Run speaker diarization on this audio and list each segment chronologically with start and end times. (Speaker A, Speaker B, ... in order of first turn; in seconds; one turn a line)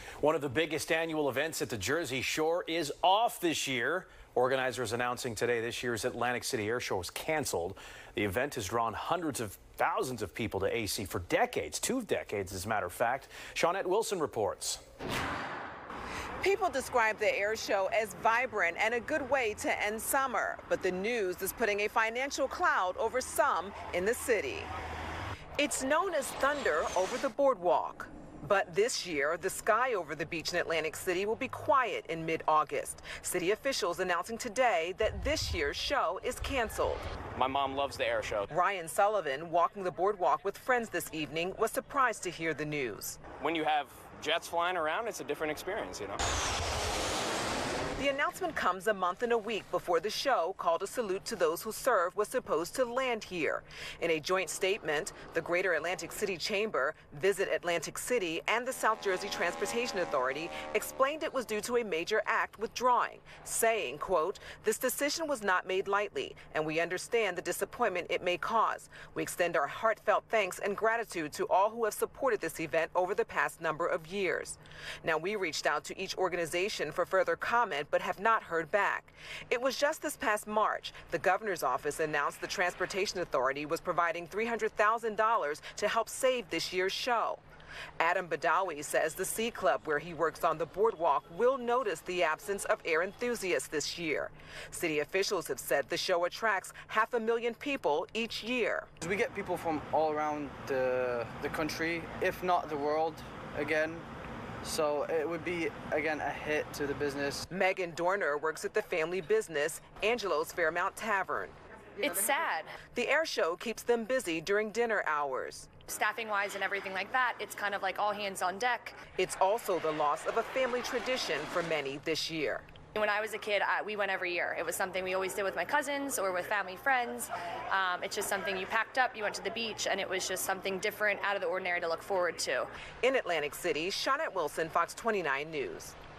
Speaker A: 0.2-14.8
Speaker B: 16.4-24.7
Speaker B: 25.6-37.0
Speaker C: 37.3-38.5
Speaker B: 38.5-43.2
Speaker C: 43.4-46.2
Speaker B: 48.0-87.4
Speaker B: 88.0-98.9
Speaker D: 99.0-104.0
Speaker D: 104.6-107.5
Speaker B: 107.5-111.5
Speaker E: 112.0-112.8
Speaker B: 112.9-115.7
Speaker E: 115.9-119.0
Speaker B: 119.2-122.7
Speaker E: 122.9-132.7
Speaker B: 133.0-135.9